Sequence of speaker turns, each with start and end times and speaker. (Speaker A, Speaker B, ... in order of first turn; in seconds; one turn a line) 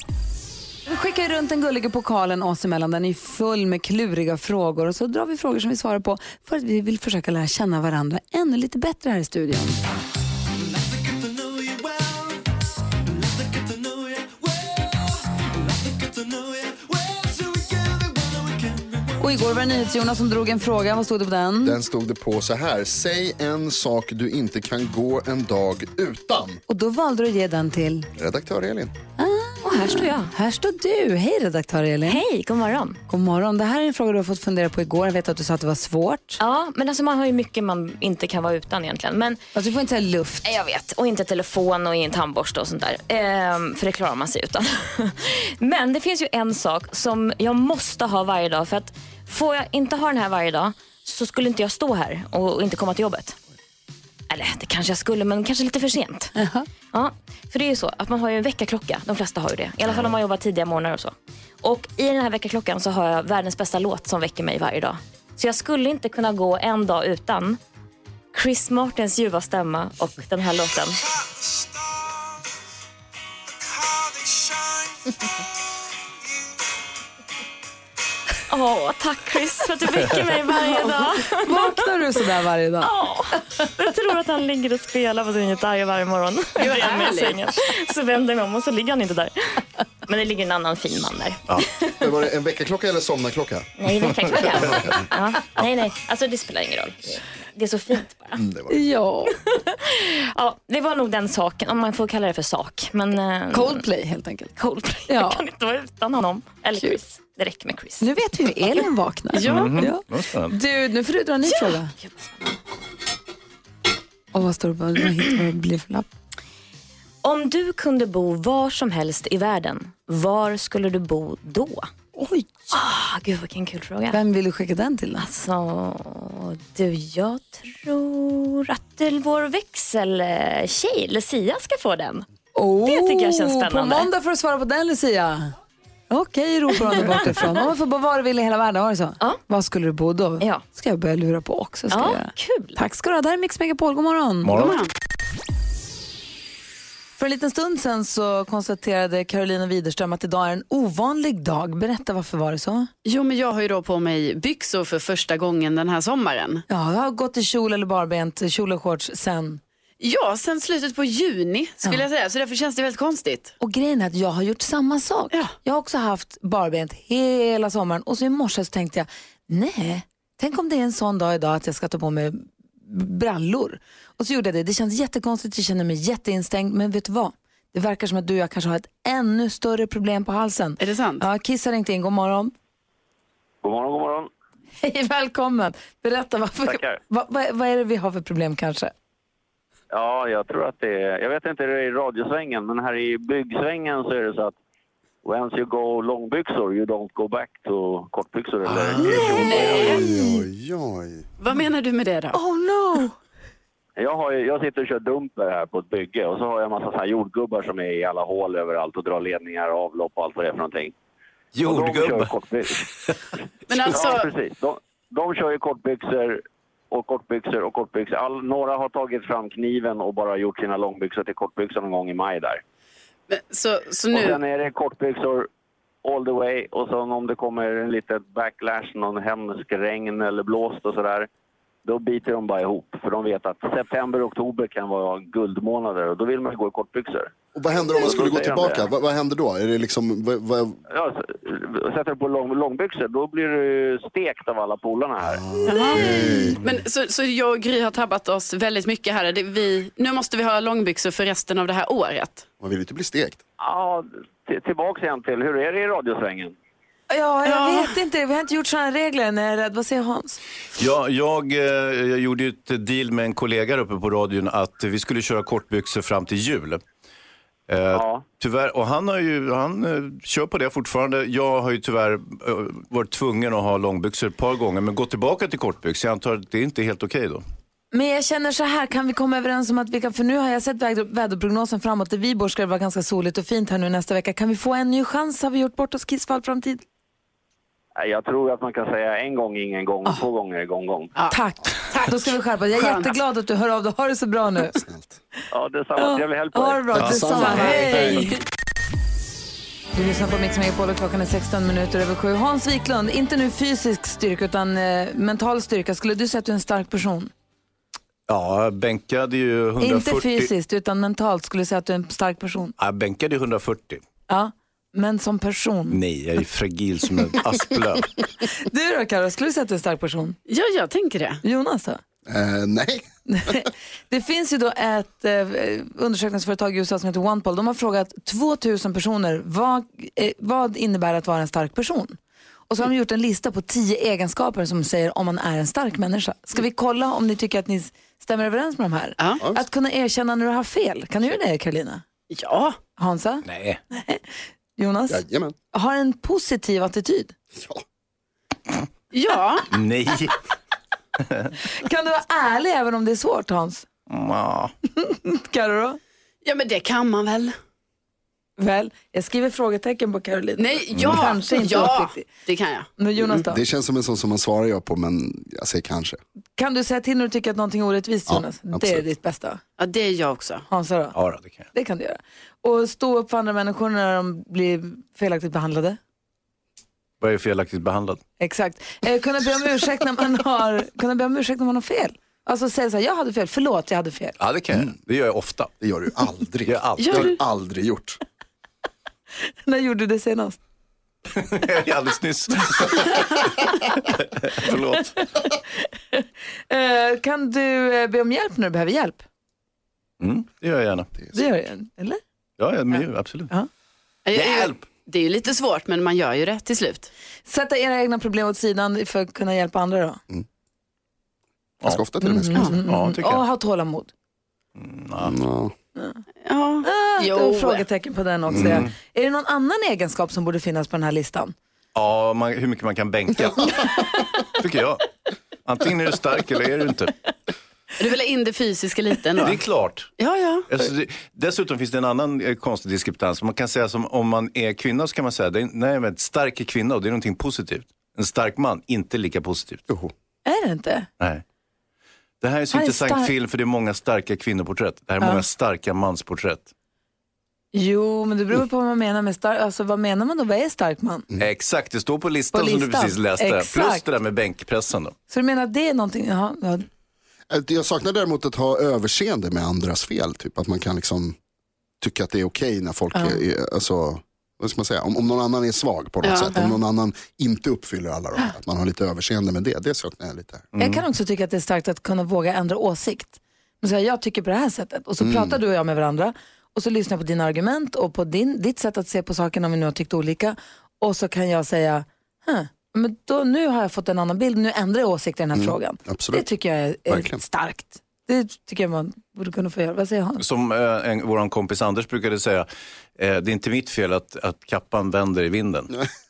Speaker A: 0.8-9.8
Speaker A: 19.2-21.8
Speaker B: 21.6-26.6
Speaker A: 26.7-28.1
Speaker B: 28.1-28.9
Speaker A: 29.2-32.2
Speaker C: 29.6-30.3
Speaker C: 32.0-33.0
Speaker A: 33.1-36.4
Speaker C: 36.4-39.4
Speaker A: 39.5-40.5
Speaker C: 40.4-53.4
Speaker C: 54.3-56.3
Speaker A: 56.4-56.6
Speaker C: 56.9-67.6
Speaker C: 68.3-71.0
Speaker C: 78.5-81.8
Speaker A: 80.5-82.9
Speaker C: 82.8-92.2
Speaker D: 86.5-87.5
Speaker B: 92.0-93.7
Speaker C: 93.8-98.4
Speaker B: 94.3-95.1
Speaker B: 98.4-98.8
Speaker A: 98.7-99.3
Speaker C: 99.3-103.8
Speaker A: 103.5-104.5
Speaker C: 104.6-108.1
Speaker A: 105.1-105.4
Speaker A: 108.0-111.9
Speaker D: 109.3-109.9
Speaker E: 109.4-110.5
Speaker C: 111.5-112.5
Speaker A: 114.3-116.1
Speaker C: 117.2-121.9
Speaker A: 122.2-122.8
Speaker C: 122.7-124.2
Speaker A: 124.1-125.3
Speaker C: 125.2-132.2
Speaker A: 132.5-135.5
Speaker C: 132.8-134.1
Speaker A: 136.1-144.5
Speaker C: 137.0-137.5
Speaker C: 141.9-142.8
Speaker E: 144.4-144.8
Speaker D: 144.5-144.9
Speaker A: 147.2-152.9
Speaker D: 153.0-156.6
Speaker A: 156.7-159.6
Speaker D: 160.0-163.5
Speaker A: 163.6-182.5
Speaker D: 180.8-181.2
Speaker F: 183.6-184.3
Speaker A: 184.8-188.9
Speaker F: 186.6-187.0
Speaker F: 189.9-194.5
Speaker F: 195.2-199.8
Speaker E: 198.7-199.8
Speaker A: 199.1-200.4
Speaker D: 199.4-200.0
Speaker B: 199.4-201.2
Speaker D: 201.4-202.4
Speaker A: 202.3-203.1
Speaker F: 204.0-210.9
Speaker E: 211.5-212.3
Speaker F: 211.6-212.9
Speaker D: 213.7-214.3
Speaker F: 213.8-222.6
Speaker D: 223.3-224.4
Speaker F: 224.1-225.5
Speaker F: 226.0-231.3
Speaker F: 231.8-237.3
Speaker B: 237.5-240.8
Speaker F: 238.0-238.9
Speaker F: 240.9-245.4
Speaker B: 245.2-246.6
Speaker D: 245.6-252.4
Speaker B: 252.6-253.4
Speaker F: 253.6-256.5
Speaker A: 257.1-260.4
Speaker D: 257.4-257.9
Speaker E: 260.8-266.8
Speaker E: 267.7-277.4
Speaker F: 267.9-268.2
Speaker A: 277.9-286.8
Speaker F: 288.0-291.1
Speaker D: 291.1-293.1
Speaker A: 291.3-294.8
Speaker B: 294.8-295.1
Speaker F: 295.5-297.9
Speaker A: 296.0-298.4
Speaker B: 296.9-298.3
Speaker E: 297.0-298.0
Speaker A: 299.9-307.3
Speaker E: 308.3-310.5
Speaker A: 309.8-312.7
Speaker E: 312.8-314.0
Speaker A: 314.3-316.0
Speaker E: 315.9-318.2
Speaker A: 318.5-320.4
Speaker D: 320.5-321.4
Speaker A: 321.4-322.0
Speaker B: 322.2-323.7
Speaker A: 323.3-332.2
Speaker A: 332.7-342.0
Speaker D: 339.2-339.4
Speaker D: 342.3-342.8
Speaker A: 343.0-347.3
Speaker E: 343.4-343.8
Speaker B: 345.1-345.6
Speaker B: 347.5-347.8
Speaker D: 349.1-349.7
Speaker E: 349.7-350.4
Speaker A: 351.6-353.9
Speaker E: 354.1-354.7
Speaker A: 354.9-356.0
Speaker D: 356.4-357.6
Speaker A: 358.6-362.3
Speaker D: 360.6-363.4
Speaker E: 360.9-361.2
Speaker A: 363.0-363.6
Speaker B: 363.4-366.2
Speaker A: 366.6-369.6
Speaker B: 368.3-369.0
Speaker D: 369.8-370.6
Speaker A: 370.7-371.2
Speaker E: 371.1-371.6
Speaker A: 371.7-376.0
Speaker E: 377.2-378.2
Speaker A: 378.4-384.4
Speaker E: 384.4-385.7
Speaker B: 385.8-388.2
Speaker E: 386.6-387.3
Speaker D: 387.0-387.3
Speaker A: 389.6-390.6
Speaker E: 391.3-393.5
Speaker E: 394.1-395.2
Speaker A: 395.8-399.2
Speaker E: 400.2-401.1
Speaker A: 401.3-402.2
Speaker E: 402.6-403.5
Speaker D: 404.2-407.1
Speaker E: 404.3-404.9
Speaker A: 407.5-410.2
Speaker B: 411.8-412.8
Speaker A: 412.2-414.1
Speaker E: 412.7-413.4
Speaker E: 414.8-415.4
Speaker B: 415.2-415.7
Speaker D: 416.4-417.8
Speaker A: 416.8-421.5
Speaker E: 418.5-418.9
Speaker B: 418.5-418.8
Speaker E: 421.9-425.1
Speaker E: 425.6-427.1
Speaker D: 428.0-429.6
Speaker E: 429.4-430.1
Speaker D: 430.2-430.7
Speaker E: 430.7-439.9
Speaker A: 440.4-441.1
Speaker E: 442.4-446.7
Speaker A: 442.7-443.3
Speaker A: 447.7-451.2
Speaker E: 451.4-455.1
Speaker A: 452.5-454.0
Speaker A: 455.3-456.9
Speaker B: 457.5-461.4
Speaker B: 462.0-470.7
Speaker A: 463.1-463.4
Speaker D: 466.2-466.6
Speaker E: 470.7-471.0
Speaker A: 470.8-490.4
Speaker B: 475.2-475.6
Speaker B: 485.5-486.4
Speaker B: 487.1-487.4
Speaker E: 490.4-495.9